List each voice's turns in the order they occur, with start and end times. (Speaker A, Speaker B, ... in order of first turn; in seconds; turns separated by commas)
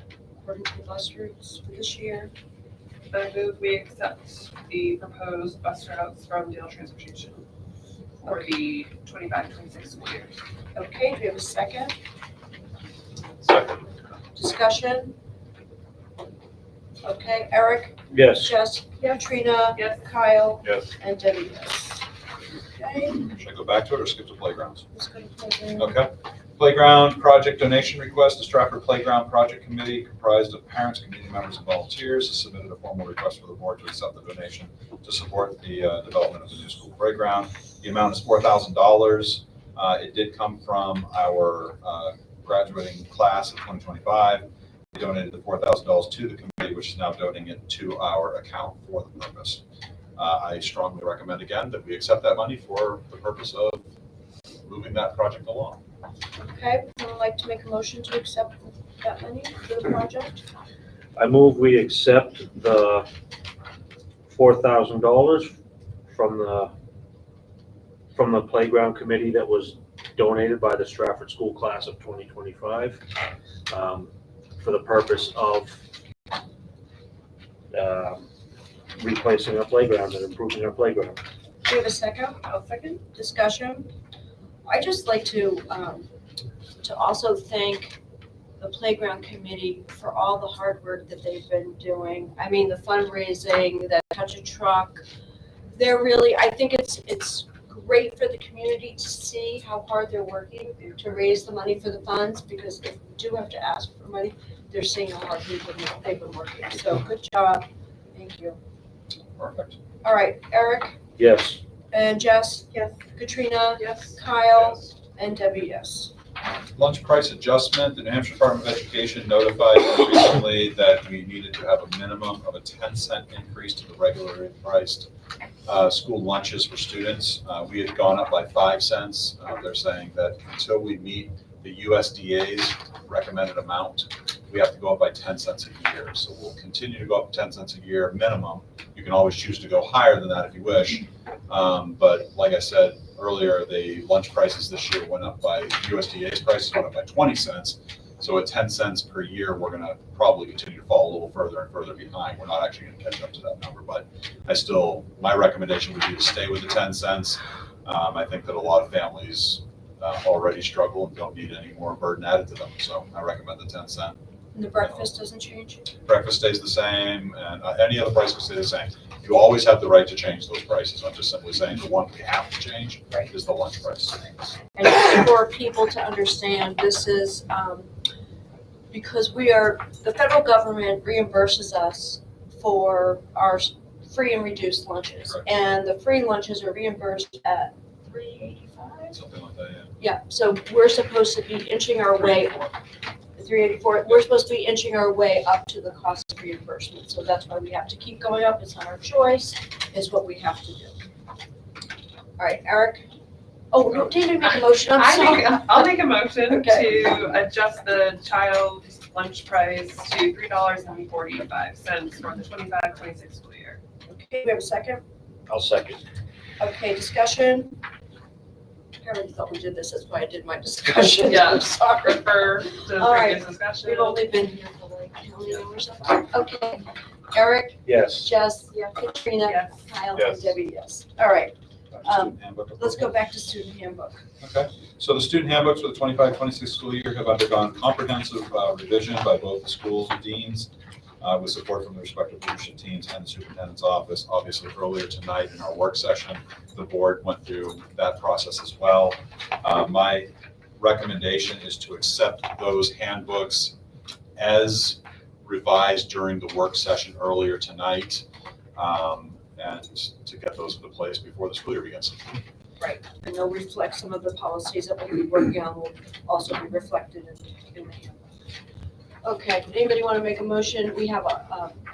Speaker A: 0.4-2.3, Speaker B: 3.1-7.4, Speaker B: 8.2-10.4, Speaker A: 10.7-11.9, Speaker C: 13.4-13.9, Speaker A: 14.3-15.1, Speaker A: 17.0-22.0, Speaker D: 18.1-18.5, Speaker C: 20.6-20.9, Speaker A: 22.8-23.3, Speaker C: 23.3-24.8, Speaker A: 24.9-25.9, Speaker C: 25.8-49.6, Speaker C: 50.2-53.8, Speaker C: 54.6-55.8, Speaker A: 56.4-60.4, Speaker D: 61.1-63.1, Speaker D: 64.3-65.5, Speaker D: 66.1-66.7, Speaker D: 68.1-73.0, Speaker D: 73.7-75.8, Speaker D: 77.7-78.2, Speaker D: 79.0-81.2, Speaker A: 81.6-83.9, Speaker B: 82.4-83.0, Speaker A: 84.7-86.1, Speaker A: 86.8-88.0, Speaker A: 88.6-95.0, Speaker A: 95.7-108.6, Speaker C: 109.4-109.7, Speaker A: 110.0-111.0, Speaker D: 111.2-111.6, Speaker A: 111.9-116.1, Speaker B: 112.7-113.0, Speaker B: 113.8-114.2, Speaker C: 114.6-114.8, Speaker C: 116.7-125.1, Speaker C: 125.7-164.2, Speaker A: 164.5-165.9, Speaker C: 166.1-174.3, Speaker A: 174.7-177.9, Speaker A: 178.9-189.2, Speaker C: 189.1-189.9, Speaker A: 190.0-192.7, Speaker A: 193.3-201.0, Speaker A: 202.4-203.1, Speaker A: 203.7-206.9, Speaker B: 204.5-213.8, Speaker A: 214.1-215.0, Speaker D: 215.5-216.0, Speaker A: 216.6-217.8, Speaker A: 219.0-231.5, Speaker B: 221.2-224.2, Speaker D: 227.8-228.3, Speaker B: 229.4-229.7, Speaker C: 230.2-230.6, Speaker C: 231.9-233.1, Speaker A: 232.0-234.2, Speaker C: 234.4-240.7, Speaker C: 241.2-253.7, Speaker C: 254.4-258.2, Speaker C: 258.8-262.3, Speaker A: 262.8-268.3, Speaker A: 269.2-271.8